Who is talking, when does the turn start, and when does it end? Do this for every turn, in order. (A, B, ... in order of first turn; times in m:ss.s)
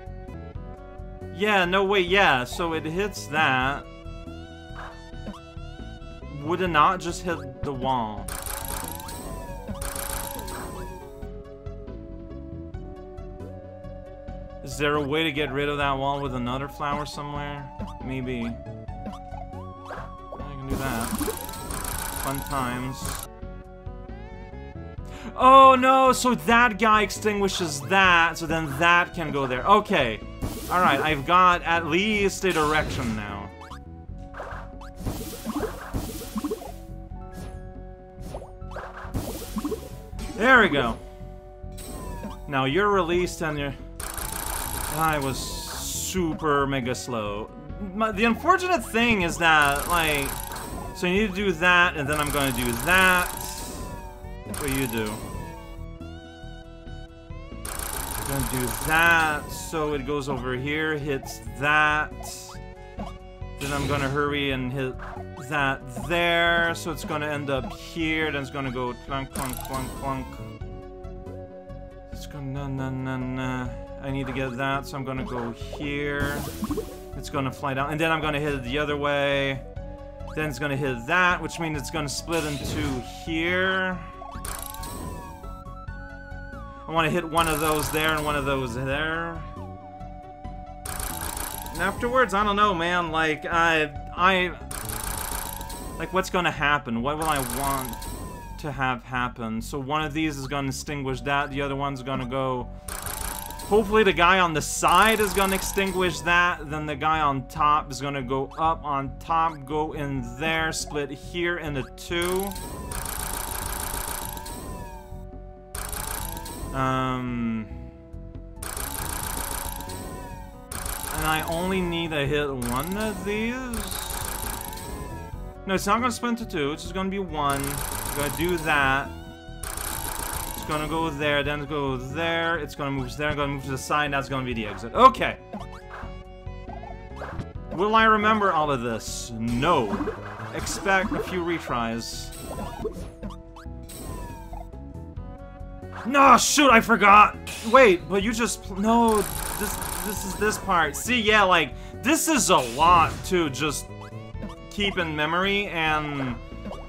0:01.3-0:03.9 A
0:06.2-0:08.3 A
0:14.6-0:18.6 A
0:20.3-0:21.2 A
0:22.2-0:23.3 A
0:25.2-0:33.5 A
0:40.4-0:41.0 A
0:42.5-0:43.8 A
0:44.9-0:50.4 A
0:50.9-0:53.9 A
0:54.6-0:55.2 A
0:58.2-1:02.6 A
1:03.6-1:10.4 A
1:12.1-1:16.5 A
1:17.1-1:19.6 A
1:20.3-1:24.1 A
1:26.8-1:29.5 A
1:31.7-1:34.7 A
1:36.0-1:38.0 A
1:38.6-1:42.7 A
1:43.6-1:52.6 A
1:56.7-1:57.8 A
2:01.1-2:04.3 A
2:05.6-2:09.2 A
2:10.5-2:15.4 A
2:17.7-2:22.3 A
2:26.0-2:33.9 A
2:34.7-2:36.4 A